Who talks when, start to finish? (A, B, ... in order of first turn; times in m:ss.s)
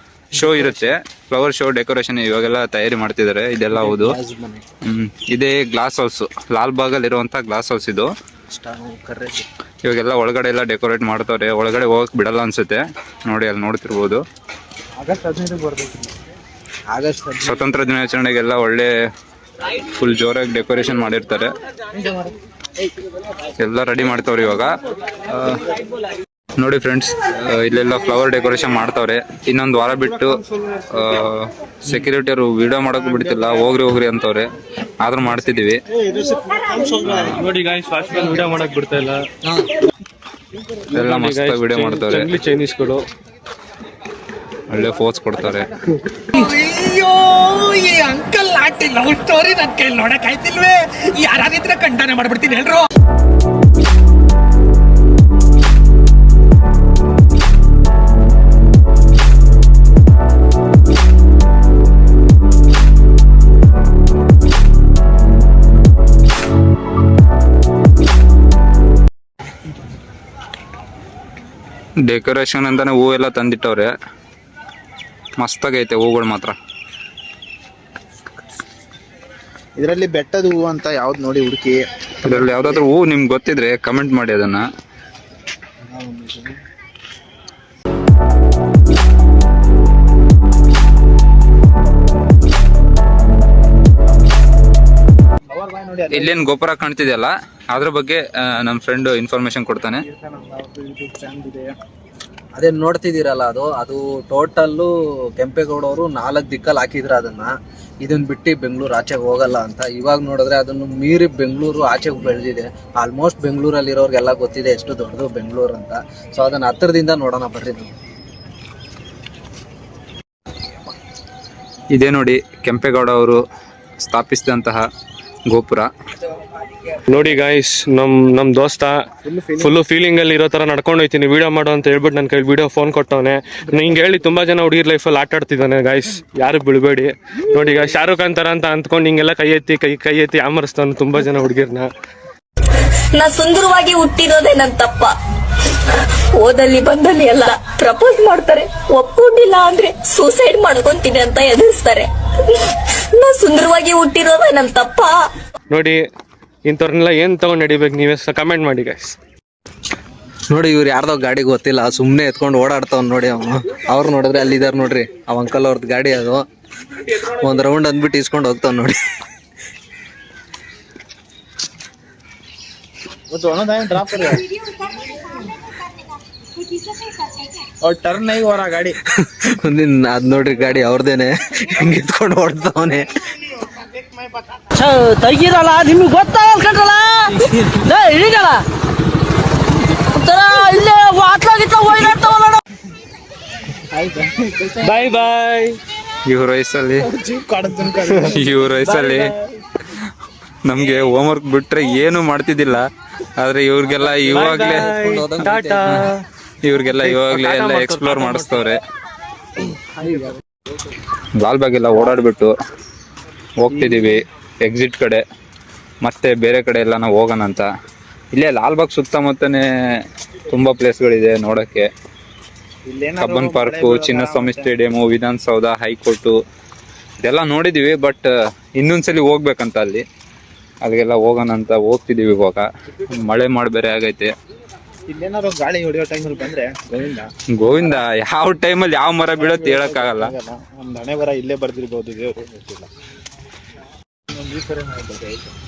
0:00.3-0:04.2 A
0:03.7-0:04.6 B
0:04.9-0:08.1 A
0:08.5-0:09.4 B
0:09.8-0:14.2 A
0:15.0-0:16.2 C
0:16.9-0:17.7 B
0:17.4-0:18.9 A
0:20.0-0:21.5 A
0:22.0-0:22.3 C
0:23.6-0:24.7 A
0:25.3-0:25.6 A
0:26.6-0:34.5 A
0:35.0-0:35.8 A
0:36.0-0:37.2 C
0:37.1-0:39.2 D
0:39.4-0:39.7 B
0:40.9-0:43.0 D
0:40.9-0:42.3 A
0:44.7-0:45.7 A
0:46.6-0:52.8 E
1:12.1-1:13.9 A
1:15.4-1:16.6 A
1:19.8-1:22.8 C
1:22.2-1:24.6 A
1:25.9-1:26.6 C
1:35.5-1:36.4 C
1:36.1-1:40.0 A
1:40.0-1:41.7 C
1:42.6-1:47.5 B
1:48.0-1:57.9 B
2:01.9-2:03.4 A
2:04.0-2:04.8 A
2:05.5-2:05.9 A
2:07.1-2:09.0 D
2:09.3-2:09.6 C
2:09.5-2:21.9 D
2:23.2-2:25.1 F
2:26.4-2:32.1 F
2:33.2-2:35.1 F
2:35.7-2:36.0 D
2:36.6-2:39.2 D
2:40.5-2:46.4 B
2:47.1-2:49.0 B
2:53.3-2:54.5 C
2:57.8-2:59.0 C
2:59.2-3:03.1 B
3:04.8-3:08.6 E
3:10.0-3:12.6 E
3:13.9-3:14.9 C
3:14.8-3:15.8 D
3:16.3-3:17.0 A
3:17.0-3:18.9 C
3:18.3-3:19.3 A
3:20.6-3:22.8 A
3:23.4-3:24.9 A
3:23.9-3:26.0 B
3:24.3-3:26.2 D
3:26.6-3:28.8 A
3:26.9-3:28.7 D
3:30.0-3:30.3 B
3:31.4-3:32.5 A
3:33.6-3:35.2 A
3:33.7-3:34.0 C
3:36.0-3:37.7 A
3:38.3-3:39.6 A
3:40.5-3:41.9 A
3:42.9-3:44.7 C
3:43.2-3:46.4 A
3:47.2-3:50.0 A
3:50.8-3:54.3 A
3:55.1-3:57.3 C
3:57.5-4:00.3 A
3:59.4-4:02.9 C
4:04.3-4:05.5 C